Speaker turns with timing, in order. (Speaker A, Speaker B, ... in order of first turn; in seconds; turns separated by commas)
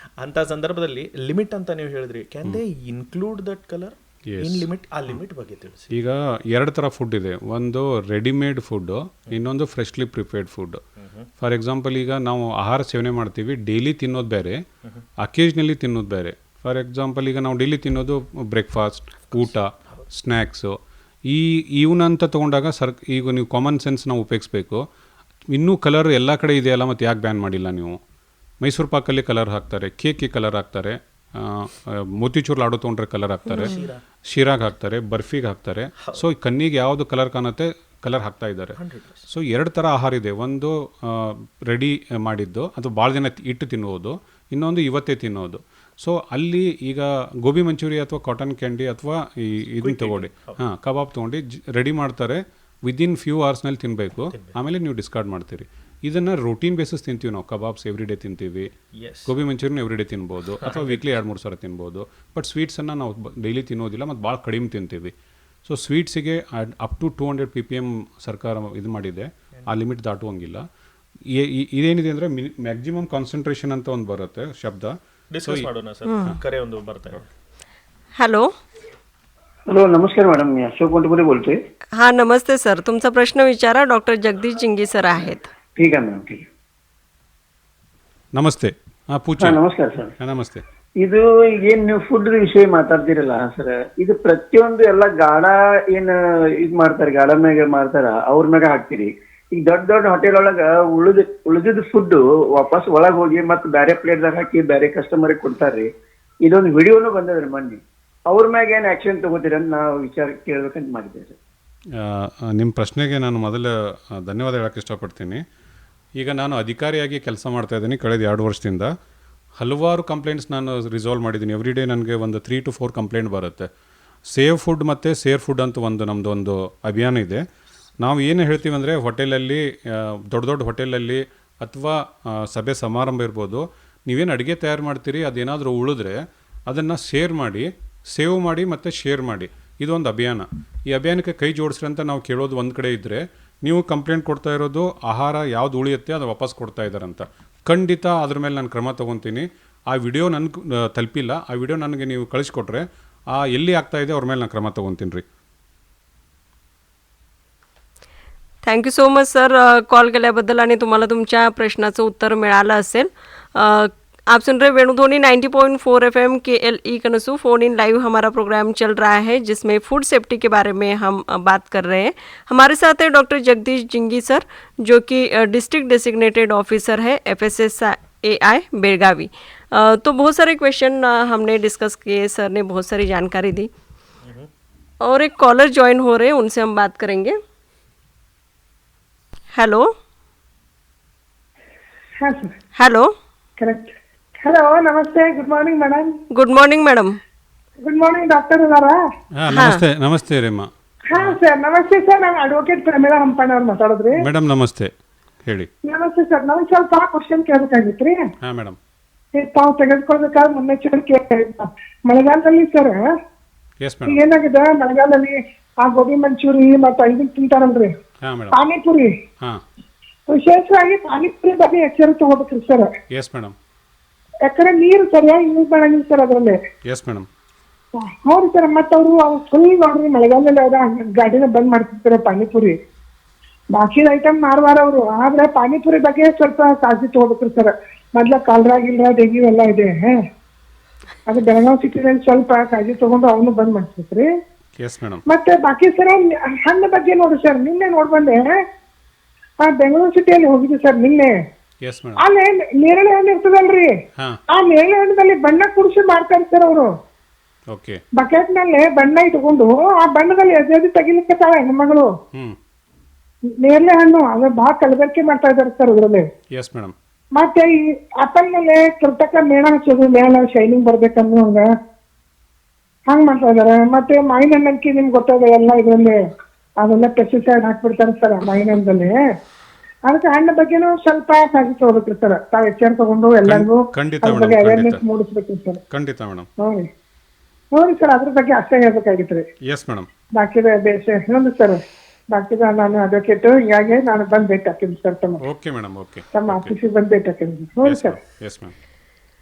Speaker A: 0.2-5.9, Speaker B: 4.3-5.1, Speaker B: 5.9-10.8, Speaker A: 11.0-11.3, Speaker B: 11.4-14.6, Speaker B: 15.2-20.8, Speaker A: 19.3-20.1, Speaker B: 21.3-24.8, Speaker B: 25.5-28.0, Speaker B: 28.6-33.8, Speaker A: 33.5-34.0, Speaker B: 34.3-58.7, Speaker A: 38.8-39.2, Speaker A: 49.8-50.6, Speaker A: 59.0-59.3, Speaker B: 59.3-65.1, Speaker A: 60.6-61.2, Speaker B: 65.7-70.6, Speaker B: 71.3-75.7, Speaker A: 75.3-77.3, Speaker C: 76.1-76.3, Speaker C: 78.2-78.5, Speaker D: 79.7-81.5, Speaker C: 82.0-85.5, Speaker D: 85.8-86.4, Speaker B: 88.3-89.6, Speaker D: 89.4-90.1, Speaker B: 90.2-90.6, Speaker D: 91.0-105.9, Speaker D: 106.5-111.4, Speaker B: 112.0-115.4, Speaker B: 116.2-118.9, Speaker B: 119.6-123.7, Speaker B: 124.3-127.4, Speaker B: 128.0-155.2, Speaker C: 158.6-183.7, Speaker A: 184.2-184.5, Speaker C: 185.0-187.4, Speaker C: 189.5-189.9, Speaker E: 192.2-192.5, Speaker C: 192.8-193.1, Speaker E: 193.6-196.1, Speaker C: 196.4-197.1, Speaker E: 197.8-199.0, Speaker B: 199.4-201.4, Speaker C: 199.5-199.8, Speaker E: 201.1-204.2, Speaker B: 204.2-204.9, Speaker E: 205.8-208.2, Speaker B: 208.4-208.8, Speaker E: 209.3-213.0, Speaker B: 213.8-214.2, Speaker E: 214.1-217.9, Speaker B: 218.2-218.6, Speaker E: 218.5-219.1, Speaker E: 220.3-222.9, Speaker B: 223.1-223.6, Speaker E: 224.5-226.6, Speaker B: 226.9-227.3, Speaker E: 228.0-232.8, Speaker E: 233.7-240.2, Speaker E: 241.3-244.3, Speaker B: 244.8-245.2, Speaker E: 245.3-248.5, Speaker E: 249.6-251.3, Speaker B: 251.8-252.2, Speaker E: 252.2-253.9, Speaker E: 254.5-256.9, Speaker B: 257.7-258.0, Speaker E: 258.2-262.1, Speaker E: 263.6-266.3, Speaker B: 266.5-266.9, Speaker E: 267.4-271.7, Speaker E: 273.1-276.2, Speaker E: 276.8-279.2, Speaker E: 280.1-285.8, Speaker B: 283.4-285.0, Speaker B: 285.9-286.5, Speaker E: 286.6-286.9, Speaker E: 287.8-289.4, Speaker B: 289.7-290.1, Speaker E: 290.4-291.8, Speaker E: 292.3-295.4, Speaker B: 295.5-296.8, Speaker E: 296.3-298.2, Speaker B: 297.9-298.7